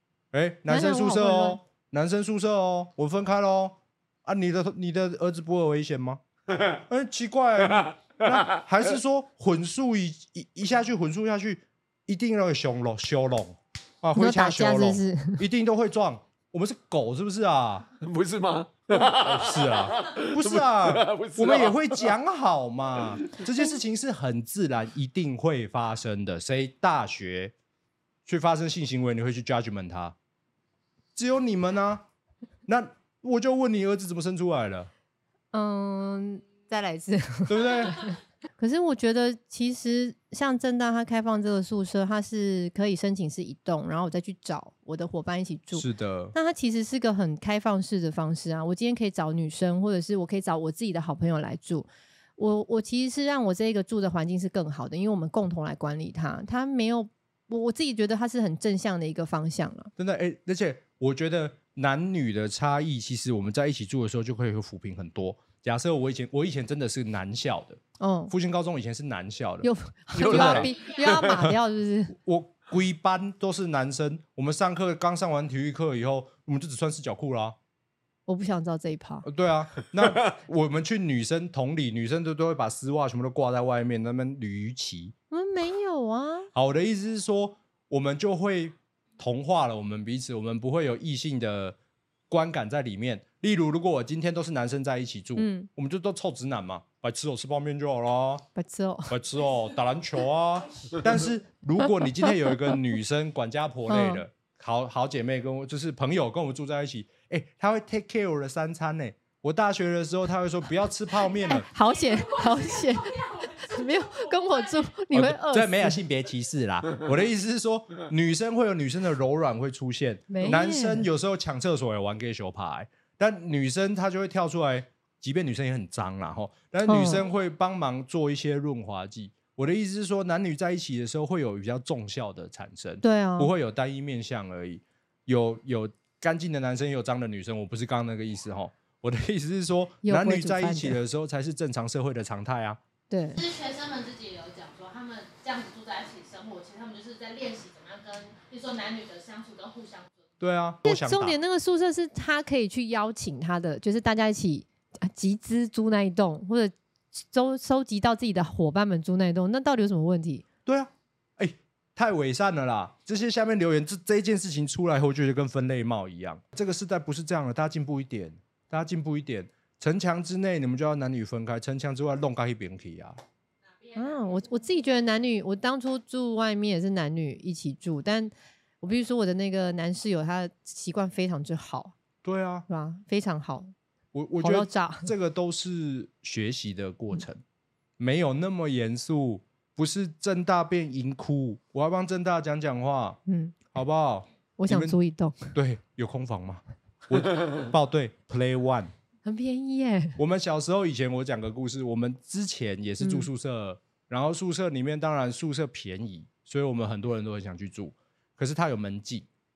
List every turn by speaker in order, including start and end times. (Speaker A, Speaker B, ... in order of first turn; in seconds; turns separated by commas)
Speaker A: 0.3-17.9, Speaker B: 0.7-1.6, Speaker C: 8.2-8.6, Speaker B: 14.2-15.4, Speaker C: 18.0-22.1, Speaker A: 18.9-27.5, Speaker A: 28.3-30.1, Speaker A: 31.1-32.0, Speaker A: 32.7-34.9, Speaker B: 35.5-59.9, Speaker A: 37.5-38.0, Speaker A: 45.7-46.4, Speaker A: 60.0-71.5, Speaker B: 68.0-68.3, Speaker B: 69.6-72.2, Speaker C: 70.2-71.2, Speaker A: 72.1-77.6, Speaker B: 78.3-79.3, Speaker A: 79.2-85.1, Speaker B: 85.3-86.5, Speaker A: 86.5-91.8, Speaker A: 92.3-98.5, Speaker B: 95.4-95.7, Speaker B: 98.5-99.1, Speaker A: 99.1-111.7, Speaker B: 102.2-102.8, Speaker B: 103.9-104.2, Speaker B: 111.5-116.0, Speaker D: 112.4-112.8, Speaker A: 115.1-142.8, Speaker B: 120.3-121.1, Speaker B: 126.9-127.2, Speaker B: 133.0-133.5, Speaker B: 140.0-141.0, Speaker B: 143.1-143.4, Speaker D: 143.4-150.2, Speaker A: 150.4-151.4, Speaker B: 150.8-160.4, Speaker A: 160.7-173.2, Speaker B: 173.9-181.9, Speaker A: 182.2-182.7, Speaker B: 182.7-183.7, Speaker A: 184.1-187.4, Speaker B: 184.4-185.1, Speaker A: 188.0-193.2, Speaker B: 193.3-193.6, Speaker A: 193.7-195.0, Speaker B: 194.6-195.5, Speaker A: 195.5-198.9, Speaker B: 199.2-200.2, Speaker A: 200.2-209.3, Speaker B: 203.0-203.3